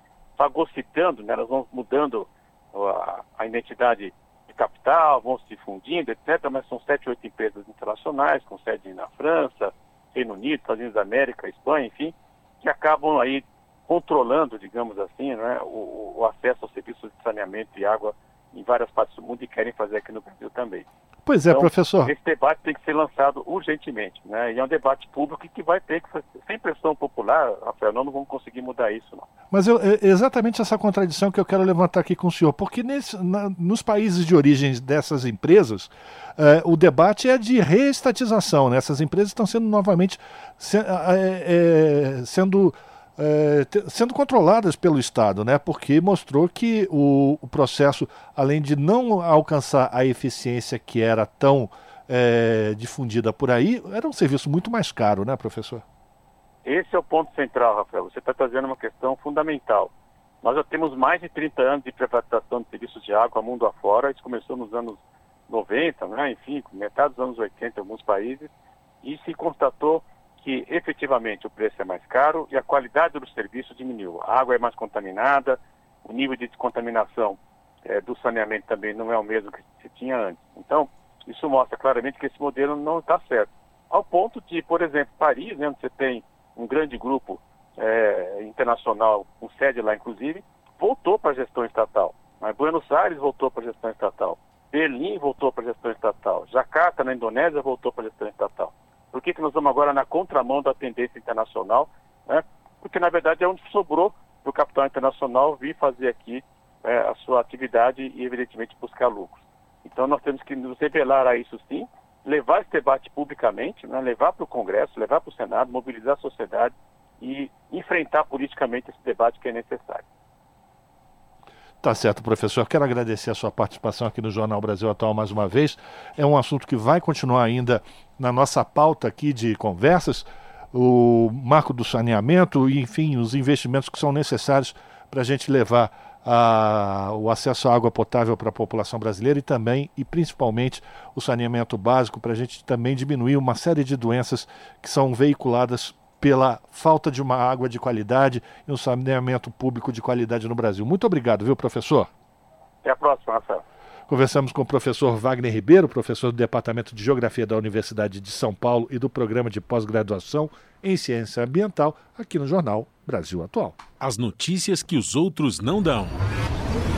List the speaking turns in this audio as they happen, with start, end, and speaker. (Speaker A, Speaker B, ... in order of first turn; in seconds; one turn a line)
Speaker A: 0.4-20.9
Speaker B: 21.2-22.1
Speaker A: 21.5-29.3
Speaker B: 29.5-55.8
Speaker A: 56.6-68.5
Speaker A: 69.0-120.0
Speaker B: 121.8-152.1
Speaker A: 152.8-153.6
Speaker B: 154.1-163.8
Speaker C: 164.0-166.2